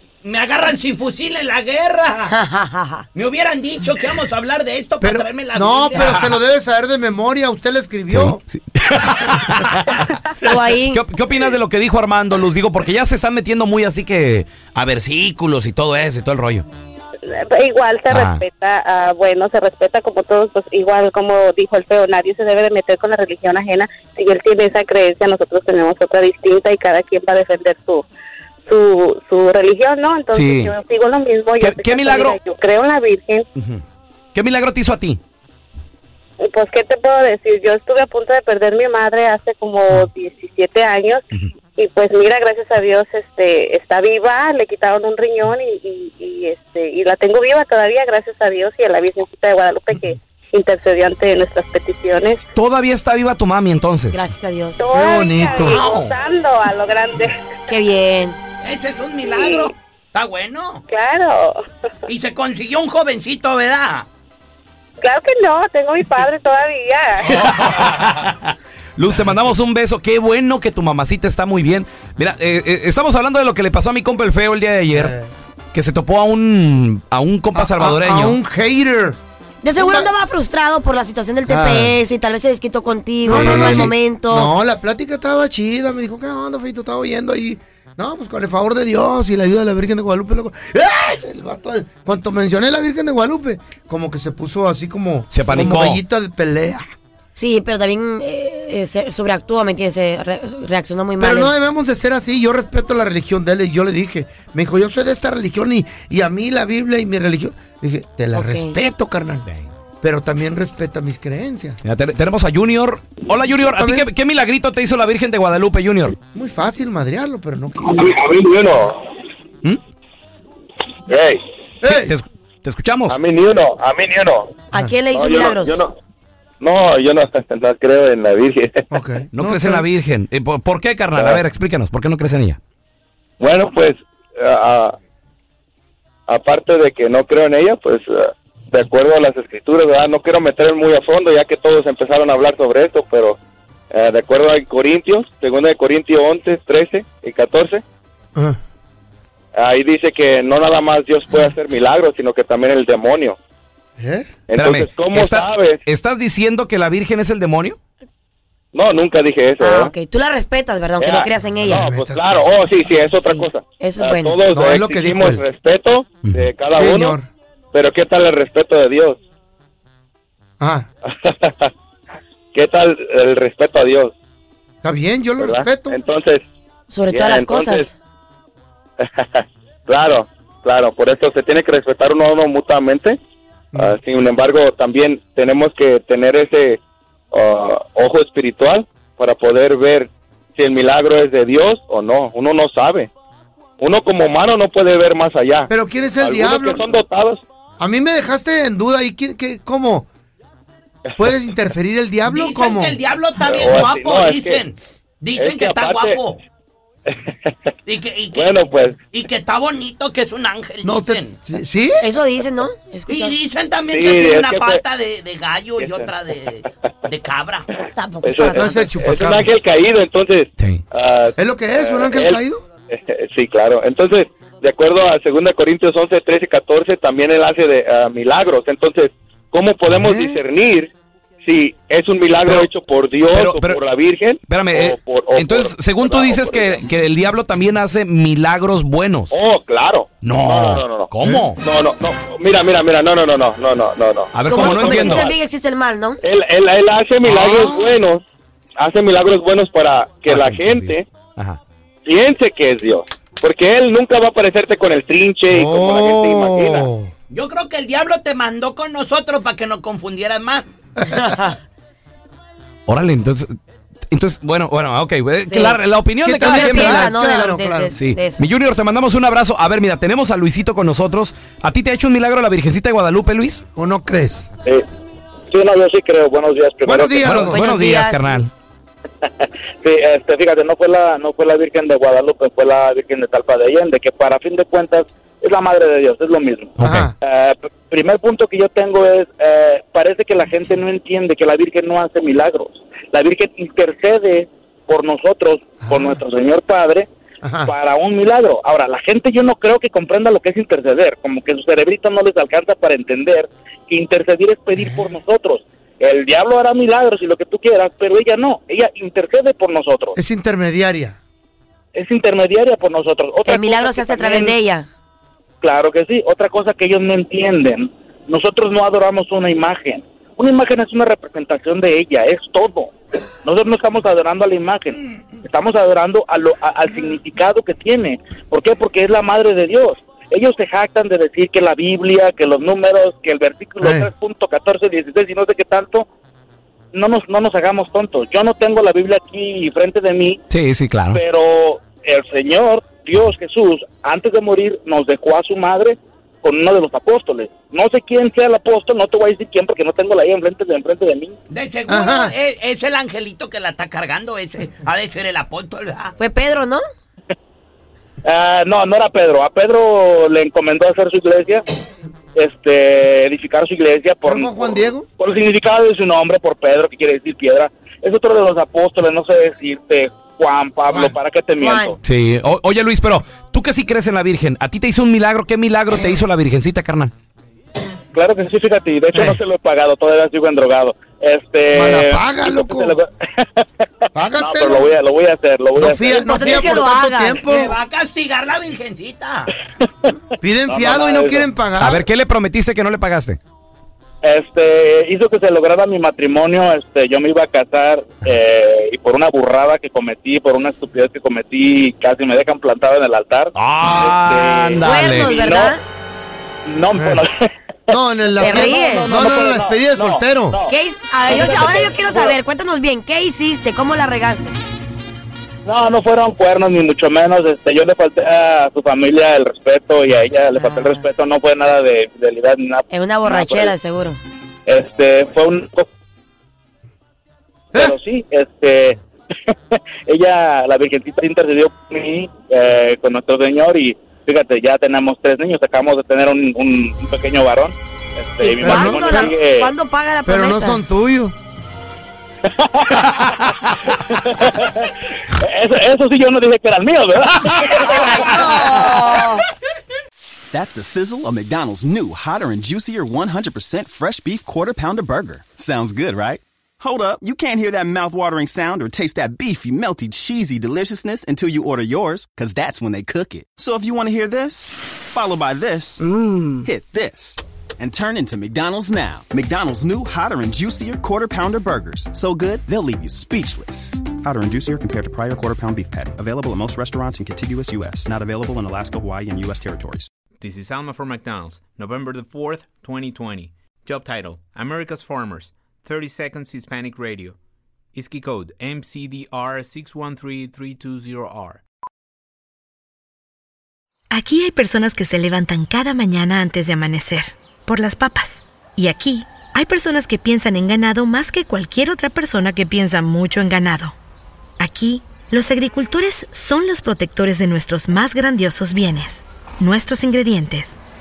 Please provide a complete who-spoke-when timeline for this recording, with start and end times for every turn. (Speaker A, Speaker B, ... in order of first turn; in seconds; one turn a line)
Speaker A: 0.2-2.3
Speaker B: 2.3-3.0
Speaker A: 3.1-6.3
Speaker C: 5.0-8.4
Speaker D: 8.1-16.6
Speaker B: 10.4-11.0
Speaker E: 17.3-28.0
Speaker D: 18.1-18.4
Speaker E: 28.6-33.5
Speaker D: 30.3-30.7
Speaker D: 31.6-32.4
Speaker D: 33.5-33.8
Speaker D: 34.3-35.2
Speaker E: 36.4-41.2
Speaker E: 41.8-52.4
Speaker D: 52.5-54.3
Speaker B: 54.1-54.8
Speaker E: 54.8-57.5
Speaker C: 54.9-55.8
Speaker A: 55.6-56.1
Speaker B: 57.7-58.4
Speaker A: 58.6-60.8
Speaker E: 59.2-59.7
Speaker E: 60.9-61.6
Speaker A: 62.1-64.0
Speaker E: 65.0-67.5
Speaker D: 67.3-75.1
Speaker C: 74.9-75.3
Speaker D: 75.7-78.4
Speaker C: 77.5-79.2
Speaker B: 79.6-84.5
Speaker C: 79.8-80.1
Speaker C: 81.5-82.0
Speaker C: 83.2-96.9
Speaker D: 83.3-83.9
Speaker D: 95.3-96.0
Speaker B: 97.3-101.5
Speaker C: 101.2-109.5
Speaker B: 108.3-108.8
Speaker C: 110.0-111.8
Speaker D: 111.8-116.2
Speaker C: 113.5-114.1
Speaker C: 116.3-118.0
Speaker F: 117.8-119.0
Speaker F: 121.1-121.4
Speaker C: 121.8-122.1
Speaker D: 121.8-123.2
Speaker F: 123.1-124.5
Speaker B: 124.7-125.8
Speaker F: 125.1-125.9
Speaker F: 126.6-128.8
Speaker C: 128.9-129.8
Speaker D: 129.3-132.6
Speaker F: 131.2-131.4
Speaker F: 133.4-134.9
Speaker F: 136.3-143.4
Speaker F: 143.9-147.8
Speaker F: 149.5-153.4
Speaker C: 154.0-154.3
Speaker F: 154.5-155.8
Speaker D: 154.6-157.8
Speaker F: 158.7-159.9
Speaker B: 159.6-161.9
Speaker F: 161.0-167.2
Speaker C: 161.7-162.4
Speaker B: 163.2-164.4
Speaker C: 164.5-165.4
Speaker C: 166.7-167.3
Speaker F: 167.7-169.2
Speaker C: 170.6-170.9
Speaker F: 171.1-171.7
Speaker F: 172.5-174.1
Speaker C: 174.8-176.0
Speaker F: 175.4-176.4
Speaker B: 176.9-177.9
Speaker F: 177.1-177.9
Speaker F: 179.0-183.2
Speaker F: 183.7-186.8
Speaker F: 187.3-193.1
Speaker F: 193.8-197.4
Speaker C: 195.7-196.8
Speaker C: 197.8-200.1
Speaker C: 201.2-203.0
Speaker A: 202.3-206.4
Speaker F: 203.4-204.6
Speaker F: 205.4-206.2
Speaker G: 205.4-205.8
Speaker A: 207.8-211.3
Speaker F: 208.3-209.1
Speaker C: 210.8-212.1
Speaker B: 212.0-213.3
Speaker A: 213.1-217.7
Speaker F: 213.9-214.8
Speaker F: 215.8-216.1
Speaker B: 217.9-218.9
Speaker F: 218.2-230.9
Speaker C: 218.5-219.5
Speaker C: 221.4-222.6
Speaker C: 229.9-230.4
Speaker F: 231.4-236.8
Speaker D: 233.3-233.8
Speaker D: 234.4-239.3
Speaker F: 239.3-245.1
Speaker D: 240.2-241.6
Speaker D: 244.3-245.3
Speaker B: 244.4-246.2
Speaker F: 246.2-248.2
Speaker C: 247.2-247.9
Speaker F: 248.8-251.1
Speaker D: 250.3-251.6
Speaker F: 252.0-256.9
Speaker C: 255.5-257.1
Speaker A: 257.3-260.7
Speaker B: 261.1-261.6
Speaker D: 262.9-263.5
Speaker D: 264.1-267.1
Speaker B: 265.4-268.5
Speaker C: 266.2-267.9
Speaker D: 267.9-273.6
Speaker C: 273.8-274.5
Speaker G: 275.5-277.2
Speaker C: 276.8-277.6
Speaker D: 277.2-278.5
Speaker B: 277.4-278.4
Speaker G: 279.8-297.1
Speaker D: 286.8-287.1
Speaker C: 286.8-287.1
Speaker C: 295.8-296.2
Speaker C: 297.4-297.7
Speaker G: 297.6-310.1
Speaker C: 310.1-311.2
Speaker G: 311.9-314.5
Speaker B: 313.4-314.9
Speaker G: 315.6-322.9
Speaker G: 323.4-336.1
Speaker C: 333.8-334.1
Speaker G: 336.9-340.4
Speaker D: 340.5-341.2
Speaker G: 341.1-351.4
Speaker A: 351.5-356.1
Speaker C: 351.9-352.3
Speaker B: 356.2-356.8
Speaker G: 358.2-361.6
Speaker G: 362.3-371.9
Speaker C: 364.2-365.1
Speaker B: 371.6-371.9
Speaker D: 372.0-377.1
Speaker G: 378.1-383.7
Speaker C: 381.7-383.0
Speaker C: 384.1-384.9
Speaker G: 384.4-386.3
Speaker C: 385.7-387.8
Speaker B: 386.2-387.4
Speaker A: 387.4-389.5
Speaker C: 390.4-392.0
Speaker G: 390.7-391.5
Speaker D: 391.8-393.4
Speaker G: 394.2-405.8
Speaker D: 403.6-405.4
Speaker B: 404.8-405.8
Speaker G: 406.6-410.7
Speaker C: 406.9-407.2
Speaker C: 407.9-410.6
Speaker B: 408.4-409.1
Speaker B: 410.7-414.6
Speaker G: 411.2-412.4
Speaker G: 415.6-423.7
Speaker B: 420.5-421.0
Speaker B: 422.9-424.2
Speaker G: 424.6-425.9
Speaker G: 427.7-429.0
Speaker G: 429.7-439.7
Speaker B: 438.4-440.8
Speaker C: 438.6-439.4
Speaker C: 440.2-441.3
Speaker G: 442.5-443.2
Speaker G: 443.9-449.1
Speaker B: 447.9-449.4
Speaker H: 450.5-480.1
Speaker I: 480.4-487.4
Speaker I: 487.9-491.6
Speaker J: 494.1-503.9
Speaker J: 504.6-510.8